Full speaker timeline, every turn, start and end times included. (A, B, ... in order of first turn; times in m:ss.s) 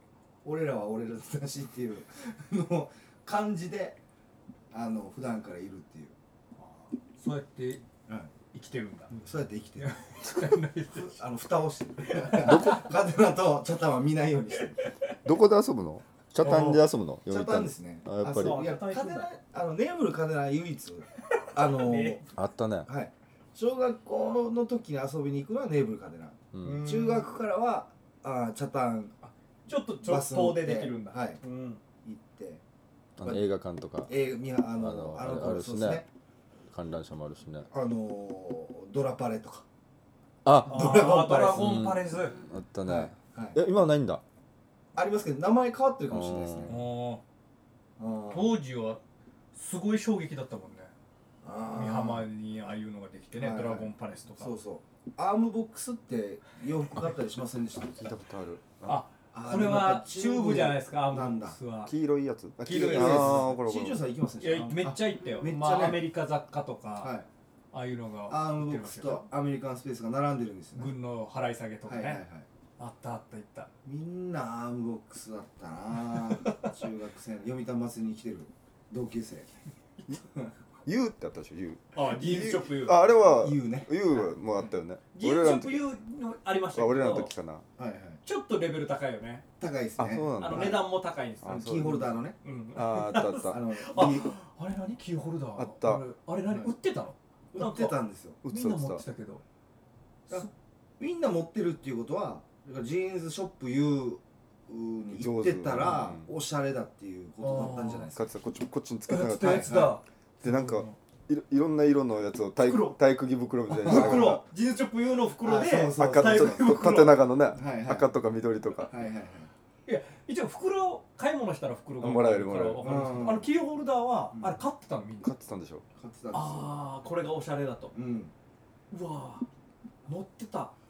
0:00.4-0:04.0 A
0:04.7-0:06.2 A
0:06.6-0:07.8 B
0:08.5-0:09.3 B
0:09.2-0:09.9 A
0:09.8-0:11.2 B
0:10.8-0:14.8 A
0:12.1-0:12.8 B
0:12.3-0:12.8 C
0:15.2-0:18.6 C
0:16.4-0:22.2 A
0:18.3-0:19.3 B
0:21.6-0:22.2 B
0:22.4-0:22.9 C
0:22.8-0:29.1 A
0:26.5-0:27.0 C
0:26.6-0:27.3 B
0:29.2-0:31.8 B
0:30.0-0:31.4 A
0:32.0-0:32.6 A
0:33.2-0:34.1 C
0:34.1-0:36.1 A
0:34.7-0:36.0 C
0:36.7-0:37.7 C
0:37.7-0:39.6 A
0:40.4-0:41.0 C
0:40.7-0:41.8 A
0:40.7-0:42.4 B
0:41.6-0:44.2 C
0:42.8-0:43.6 A
0:45.0-0:46.8 A
0:46.1-0:46.8 C
0:46.7-0:47.2 B
0:48.0-0:48.6 A
0:48.3-0:49.0 B
0:49.5-0:50.9 B
0:51.4-0:52.3 A
0:51.7-0:54.5 B
0:53.3-0:58.0 A
0:57.8-0:59.0 C
0:58.8-1:01.9 B
0:59.3-1:01.6 A
1:01.9-1:04.0 C
1:02.6-1:06.1 A
1:02.6-1:03.6 B
1:04.4-1:07.1 B
1:07.0-1:07.3 A
1:07.7-1:09.3 B
1:08.3-1:10.9 A
1:10.8-1:12.2 B
1:11.9-1:12.5 A
1:12.8-1:13.7 B
1:13.8-1:19.5 A
1:16.1-1:16.7 B
1:20.8-1:25.9 C
1:21.9-1:23.1 B
1:23.1-1:24.0 A
1:25.1-1:27.3 B
1:26.7-1:27.7 C
1:27.8-1:28.2 A
1:28.2-1:29.4 B
1:29.6-1:30.9 A
1:30.0-1:30.8 C
1:30.4-1:39.4 B
1:31.4-1:32.1 C
1:31.4-1:32.4 A
1:32.8-1:33.6 C
1:33.4-1:34.3 A
1:35.6-1:36.0 C
1:37.5-1:38.4 A
1:38.4-1:39.0 C
1:41.0-1:48.2 A
1:45.1-1:46.3 C
1:47.4-1:48.1 B
1:48.1-1:49.7 C
1:49.1-1:51.0 B
1:49.4-1:50.0 A
1:50.4-1:54.4 C
1:52.6-1:53.0 B
1:53.7-1:57.3 B
1:53.8-1:54.4 A
1:55.4-1:56.8 A
1:56.0-1:58.9 C
1:57.5-1:58.1 A
1:58.9-1:59.5 A
1:59.8-2:05.3 B
2:02.0-2:02.8 C
2:02.8-2:03.5 A
2:04.3-2:04.6 A
2:05.2-2:05.8 C
2:06.0-2:06.8 A
2:06.3-2:07.9 B
2:07.9-2:08.3 A
2:08.9-2:09.5 B
2:10.1-2:10.7 B